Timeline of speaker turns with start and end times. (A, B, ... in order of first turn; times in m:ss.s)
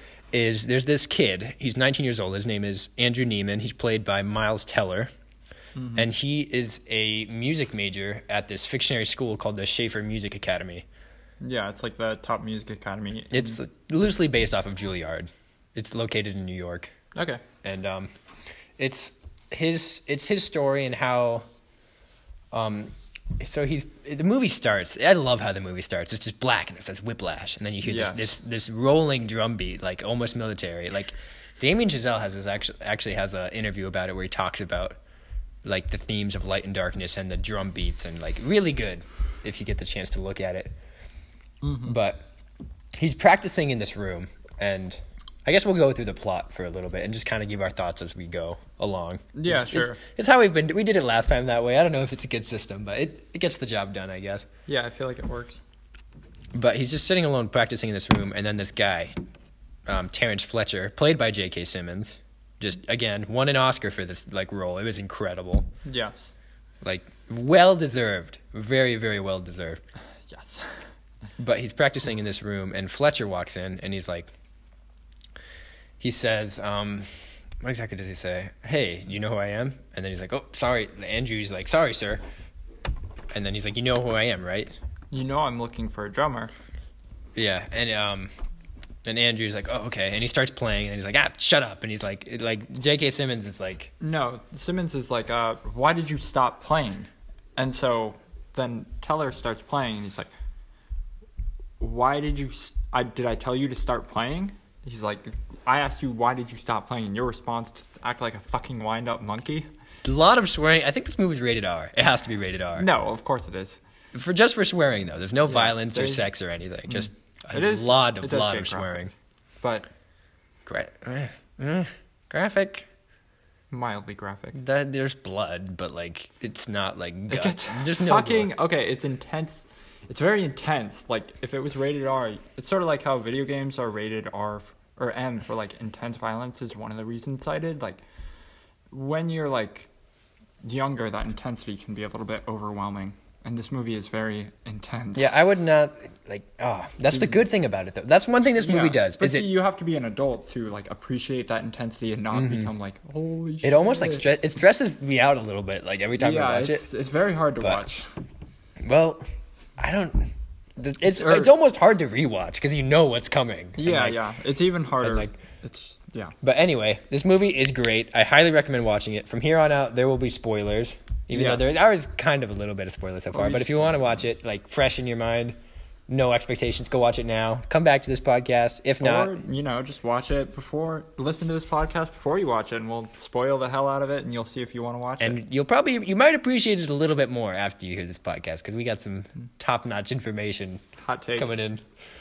0:00.3-0:05.1 A
0:05.7-0:06.1 B
0:06.0-0:10.8 A
0:11.4-0:13.6 B
0:13.3-0:16.9 A
0:17.1-0:17.4 B
0:17.6-0:18.1 A
0:18.8-0:21.4 A
0:22.5-0:35.0 A
0:27.8-0:28.3 B
0:35.6-0:40.7 A
0:41.6-0:42.0 B
0:41.8-0:42.3 A
0:42.9-0:54.5 A
0:49.3-0:50.0 B
0:54.7-0:55.6 B
0:56.5-0:59.1 A
0:59.8-1:05.7 A
1:05.8-1:06.3 B
1:06.8-1:09.8 A
1:10.3-1:10.8 B
1:11.4-1:14.3 A
1:16.0-1:17.1 A
1:17.6-1:22.2 A
1:23.3-1:24.7 A
1:25.1-1:26.5 B
1:27.4-1:28.3 A
1:29.0-1:33.9 A
1:34.0-1:40.3 B
1:41.8-1:49.7 B
1:50.0-1:52.9 A
1:52.8-1:53.8 B
1:54.1-1:59.1 A
1:55.4-1:56.3 B
1:56.9-1:59.1 B
1:59.6-1:59.9 B
2:00.6-2:02.9 A
2:03.7-2:04.6 B
2:04.5-2:08.5 A
2:07.3-2:18.0 B
2:18.9-2:19.9 B
2:20.6-2:25.3 B
2:25.2-2:29.5 A
2:27.1-2:27.4 B
2:28.6-2:34.3 B
2:32.3-2:32.7 A
2:33.6-2:36.8 A
2:36.2-2:38.0 B
2:38.8-2:39.2 A
2:39.8-2:44.2 A
2:41.1-2:41.5 B
2:43.8-2:46.3 B
2:45.0-2:45.3 A
2:46.4-2:55.6 A
2:51.3-2:51.7 B
2:53.3-2:54.2 B
2:56.1-2:59.4 A
2:59.0-3:05.4 B
3:05.2-3:10.8 A
3:11.0-3:11.6 B
3:11.4-3:11.8 A